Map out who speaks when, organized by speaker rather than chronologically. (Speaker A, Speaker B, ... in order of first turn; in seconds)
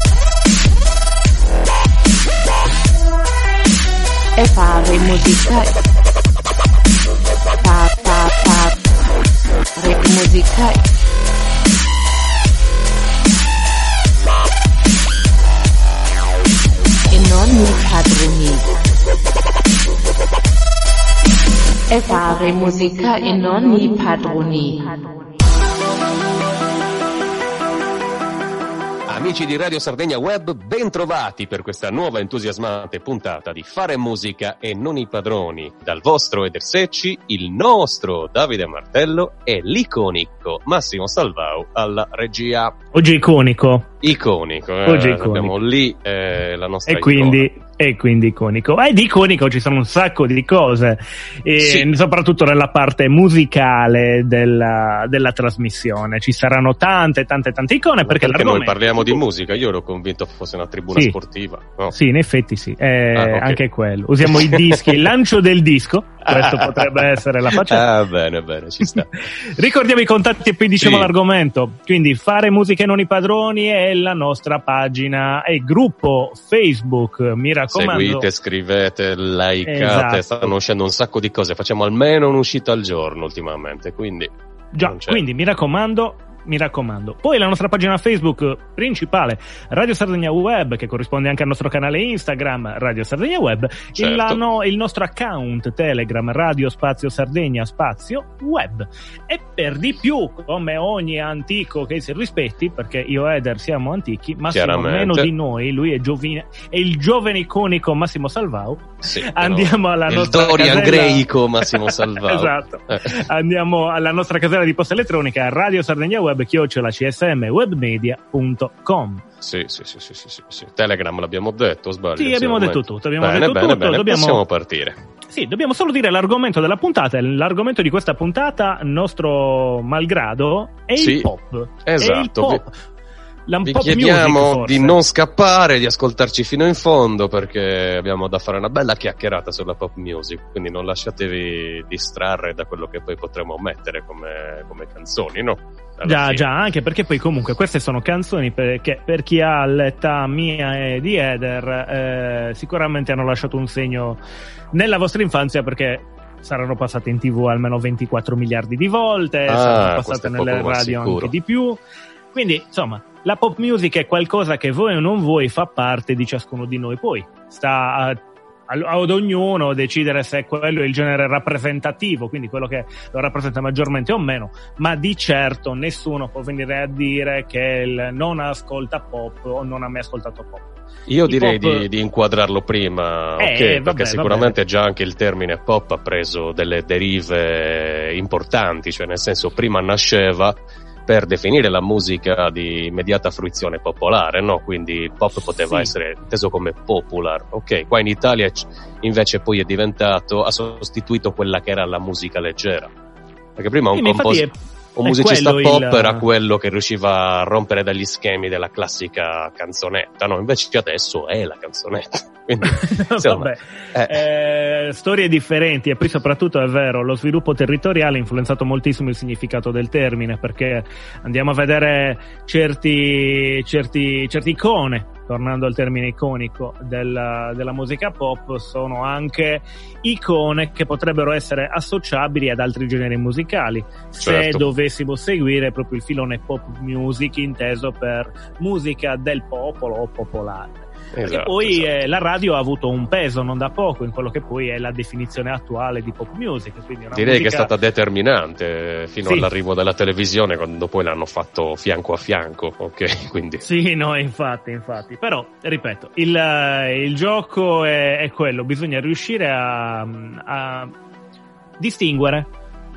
Speaker A: 4.4-5.8, 7.6-8.8, 9.8-10.8, 17.1-18.6, 21.9-24.9
Speaker B: 29.1-42.7, 44.0-47.5, 51.6-51.9, 58.0-61.9, 63.1-63.6, 64.2-64.9, 66.3-69.1, 70.8-71.1, 77.7-85.2, 94.0-94.4, 104.5-105.3, 109.0-113.1, 119.4-125.0, 131.0-131.3, 131.8-132.6, 133.6-146.5, 159.5-161.3, 181.1-202.9, 203.6-214.2, 234.2-234.6, 241.1-241.9, 247.1-253.6
Speaker C: 42.9-43.9, 44.8-45.5, 46.9-59.2, 61.9-67.8, 68.8-78.2, 79.6-80.5, 84.7-119.2, 122.2-124.4, 125.3-132.7, 133.5-135.0, 146.1-154.2, 154.7-161.8, 162.3-181.9, 183.4-184.6, 195.6-195.9, 203.9-206.2, 212.6-247.7, 253.6-260.9, 261.8-262.5